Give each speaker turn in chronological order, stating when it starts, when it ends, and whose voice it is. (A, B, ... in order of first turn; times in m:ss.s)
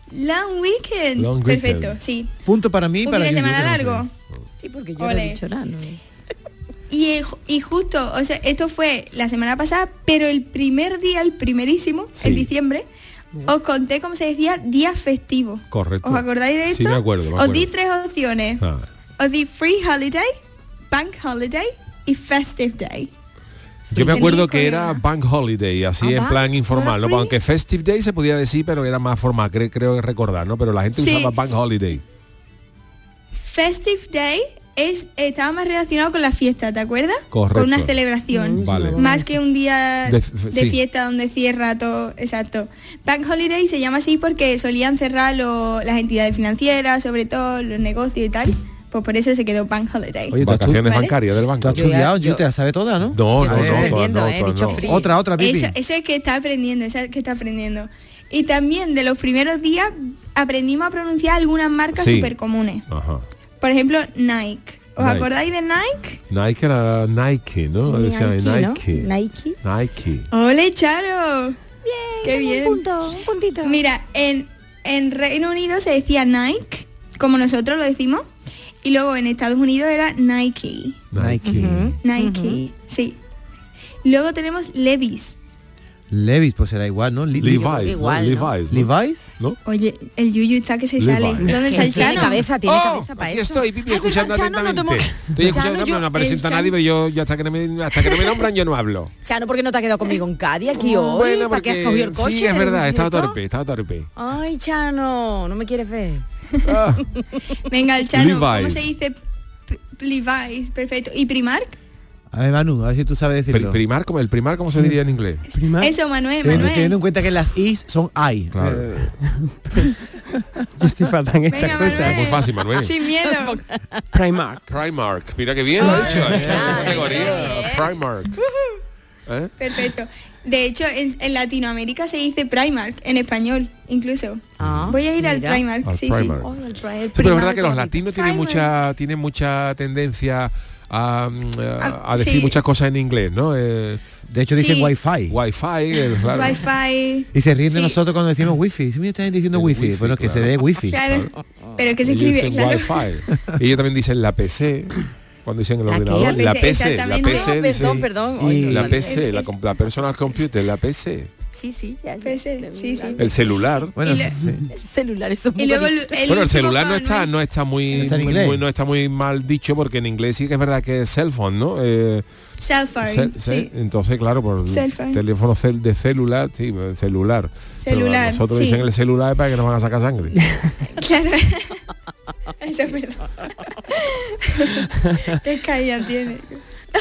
0:00.1-0:02.3 A
0:01.2-0:02.0 B
0:02.4-0:04.0 C
0:03.0-0:04.1 A
0:04.6-0:06.0 D
0:05.0-0:05.4 A
0:06.9-0:12.9 A
0:12.2-0:12.5 B
0:13.5-0:18.6 A
0:15.7-0:17.7 B
0:18.6-0:18.9 B
0:19.2-0:20.3 A
0:20.9-0:23.1 A
0:23.9-0:32.0 B
0:24.0-0:24.3 D
0:24.0-0:25.0 A
0:26.0-0:27.3 D
0:31.0-0:31.4 A
0:33.3-0:51.2 A
0:37.3-0:38.0 B
0:38.3-0:39.4 E
0:38.6-0:39.0 B
0:40.0-0:40.8 B
0:50.3-0:50.9 C
0:50.4-0:52.0 B
0:51.6-0:54.0 C
0:51.8-0:52.4 D
0:53.1-0:54.9 B
0:53.3-0:55.1 D
0:54.7-1:02.9 A
0:54.9-0:55.8 C
1:01.9-1:02.3 B
1:02.9-1:03.2 B
1:03.6-1:06.2 A
1:05.0-1:05.3 B
1:06.3-1:10.3 B
1:07.9-1:09.6 D
1:10.3-1:11.6 A
1:11.8-1:13.8 D
1:12.2-1:12.8 A
1:13.6-1:18.3 A
1:18.8-1:21.1 A
1:21.1-1:21.9 B
1:21.2-1:21.9 C
1:21.5-1:22.6 D
1:22.0-1:23.2 A
1:24.0-1:25.4 A
1:26.1-1:27.8 C
1:27.4-1:29.6 B
1:27.4-1:28.5 D
1:28.7-1:29.3 C
1:29.6-1:32.5 A
1:31.0-1:39.1 B
1:31.4-1:31.7 E
1:31.5-1:36.0 D
1:35.5-1:36.8 A
1:39.2-1:43.4 D
1:40.7-1:44.1 B
1:44.2-1:46.3 D
1:46.6-1:47.0 B
1:47.7-1:49.2 A
1:48.1-1:48.9 B
1:49.7-1:51.8 A
1:52.3-1:53.8 C
1:53.5-1:55.4 B
1:55.5-1:57.0 A
1:55.5-1:55.9 E
1:56.4-1:59.2 C
1:58.5-1:59.0 B
1:59.3-2:00.0 E
2:00.8-2:02.3 E
2:01.5-2:03.6 A
2:01.6-2:02.9 B
2:03.2-2:04.0 D
2:04.1-2:04.7 E
2:04.7-2:08.3 B
2:05.8-2:06.4 A
2:05.8-2:08.0 D
2:06.2-2:06.8 C
2:09.3-2:09.5 B
2:09.6-2:16.5 A
2:14.6-2:15.7 D
2:14.6-2:15.0 B
2:15.8-2:24.0 B
2:16.5-2:18.0 D
2:17.5-2:18.7 A
2:21.8-2:22.6 A
2:24.3-2:25.4 C
2:24.5-2:25.0 A
2:25.3-2:26.6 B
2:26.2-2:28.0 A
2:27.3-2:31.0 C
2:29.5-2:31.3 B
2:30.9-2:33.0 A
2:32.0-2:41.3 B
2:35.9-2:36.6 D
2:36.1-2:37.9 A
2:37.2-2:39.2 D
2:38.4-2:39.0 C
2:39.0-2:39.5 A
2:41.5-2:43.4 D
2:42.2-2:43.3 A
2:43.2-2:44.0 B
2:44.0-2:44.7 C
2:44.0-2:44.4 A
2:44.7-2:46.3 D
2:45.6-2:47.3 A
2:46.3-2:52.2 B
2:47.9-2:48.6 C
2:52.6-2:53.7 A
2:53.0-3:00.5 B
2:54.6-2:55.2 A
2:57.8-2:58.9 A
3:01.0-3:01.8 A
3:02.6-3:03.3 A
3:03.9-3:06.6 A